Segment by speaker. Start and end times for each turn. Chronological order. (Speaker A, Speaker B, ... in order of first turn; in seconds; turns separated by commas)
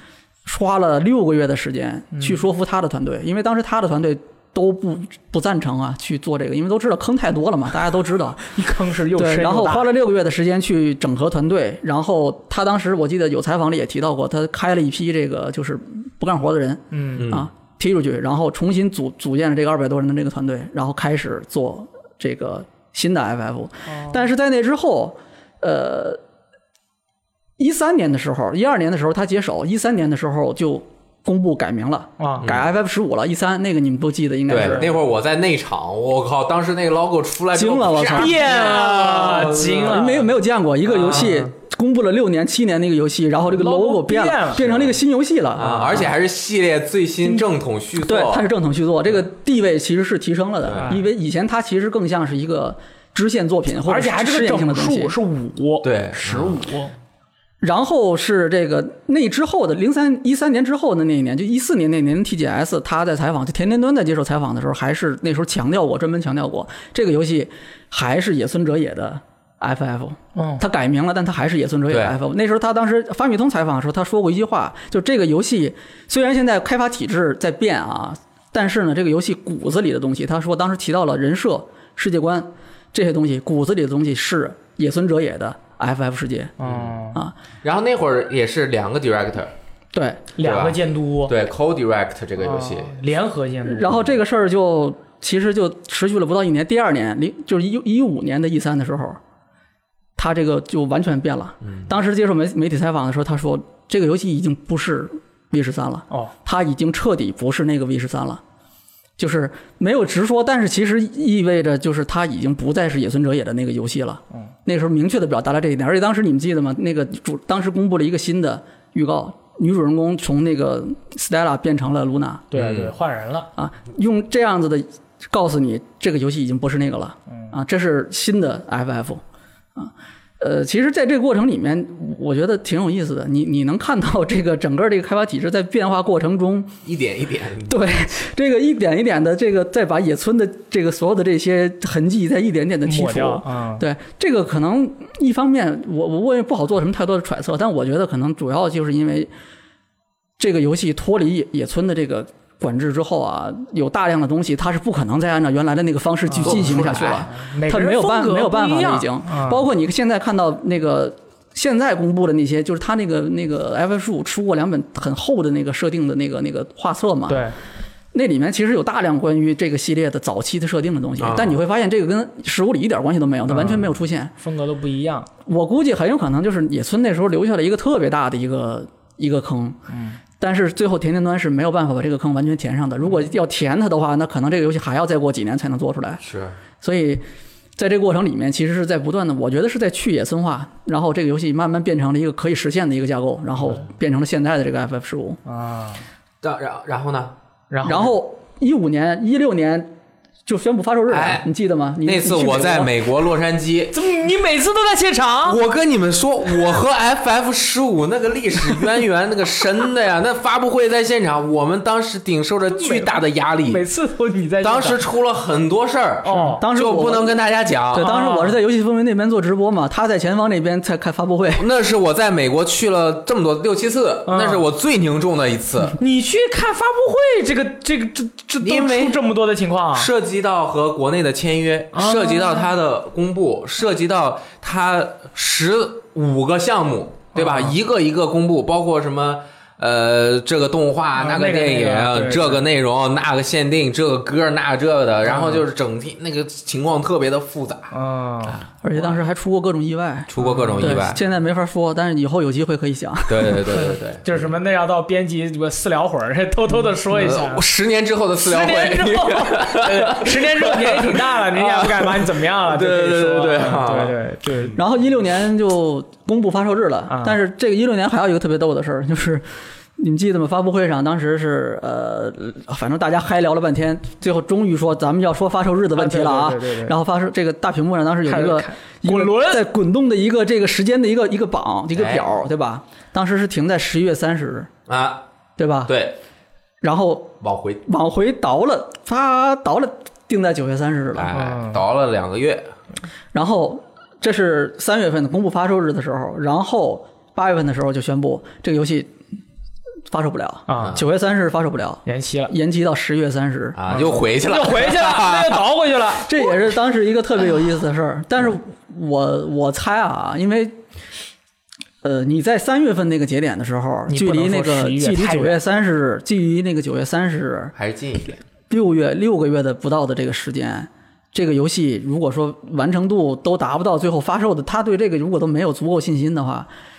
Speaker A: 0.5-8.4, Speaker B: 2.1-2.4, Speaker B: 8.5-9.9, Speaker A: 9.1-26.2, Speaker B: 16.9-17.3, Speaker C: 17.2-17.5, Speaker B: 23.9-24.2, Speaker A: 27.6-34.9, Speaker B: 32.2-32.5, Speaker C: 32.4-32.7, Speaker C: 34.5-39.9, Speaker A: 37.5-38.4, Speaker B: 38.0-40.3, Speaker A: 39.3-46.1, Speaker B: 40.9-41.5, Speaker B: 43.5-44.7, Speaker C: 44.6-45.0, Speaker C: 45.6-48.5, Speaker B: 45.6-46.1, Speaker A: 48.0-55.2, Speaker C: 50.7-51.0, Speaker B: 50.8-51.1, Speaker B: 53.9-56.9, Speaker C: 55.8-56.6, Speaker A: 57.6-86.5, Speaker B: 70.4-70.6, Speaker C: 71.9-72.2, Speaker B: 86.6-87.2, Speaker C: 86.6-87.0, Speaker C: 87.6-89.5, Speaker A: 89.9-90.3, Speaker B: 90.4-91.3, Speaker C: 90.4-93.0, Speaker B: 92.4-94.0, Speaker A: 93.7-99.2, Speaker A: 100.2-108.4, Speaker A: 109.2-122.5, Speaker B: 122.5-123.5, Speaker C: 122.5-122.9, Speaker A: 123.6-129.2, Speaker A: 129.8-136.7, Speaker C: 136.8-137.8, Speaker A: 137.7-149.3, Speaker B: 142.9-143.8, Speaker A: 150.4-167.5, Speaker B: 156.3-159.7, Speaker C: 156.4-157.3, Speaker B: 167.3-167.6, Speaker A: 168.1-174.3, Speaker C: 171.2-171.6, Speaker B: 173.5-175.3, Speaker A: 175.5-179.8, Speaker B: 179.9-180.2, Speaker A: 180.4-186.2, Speaker C: 186.2-186.6, Speaker A: 186.8-187.2, Speaker A: 187.8-195.4, Speaker B: 195.5-196.0, Speaker C: 196.4-197.3, Speaker B: 197.7-198.1, Speaker A: 197.8-199.9, Speaker A: 200.5-202.9, Speaker C: 201.1-201.5, Speaker C: 202.1-203.9, Speaker B: 203.9-205.6, Speaker C: 205.4-213.8, Speaker B: 212.7-215.0, Speaker C: 214.6-218.1, Speaker B: 216.2-216.6, Speaker A: 216.6-217.4, Speaker A: 217.9-221.7, Speaker B: 218.0-218.6, Speaker C: 221.6-226.0, Speaker B: 224.3-224.7, Speaker B: 226.0-230.1, Speaker C: 228.6-229.2, Speaker C: 229.9-247.9, Speaker B: 231.9-232.7, Speaker B: 237.3-237.8, Speaker B: 241.2-242.7, Speaker B: 245.2-245.6, Speaker B: 247.9-249.1, Speaker A: 248.8-253.7, Speaker C: 250.3-251.2, Speaker B: 250.4-251.1, Speaker C: 253.3-254.4, Speaker B: 253.7-257.6, Speaker C: 257.1-264.2, Speaker B: 258.4-264.8, Speaker A: 264.8-269.5, Speaker B: 267.1-267.4, Speaker A: 270.0-284.7, Speaker B: 276.0-276.9, Speaker B: 278.3-279.6, Speaker C: 281.9-282.3, Speaker C: 284.9-285.2, Speaker A: 285.6-285.9, Speaker C: 285.9-286.2, Speaker A: 286.8-291.4, Speaker C: 287.4-287.8, Speaker C: 291.1-292.7, Speaker B: 291.3-291.8, Speaker A: 293.3-299.1, Speaker A: 300.1-303.8, Speaker B: 300.7-301.0, Speaker B: 302.1-302.5, Speaker C: 303.8-305.7, Speaker B: 303.9-306.5, Speaker A: 306.3-310.8, Speaker A: 312.0-317.7, Speaker B: 314.1-315.6, Speaker C: 317.8-318.4, Speaker A: 318.7-326.7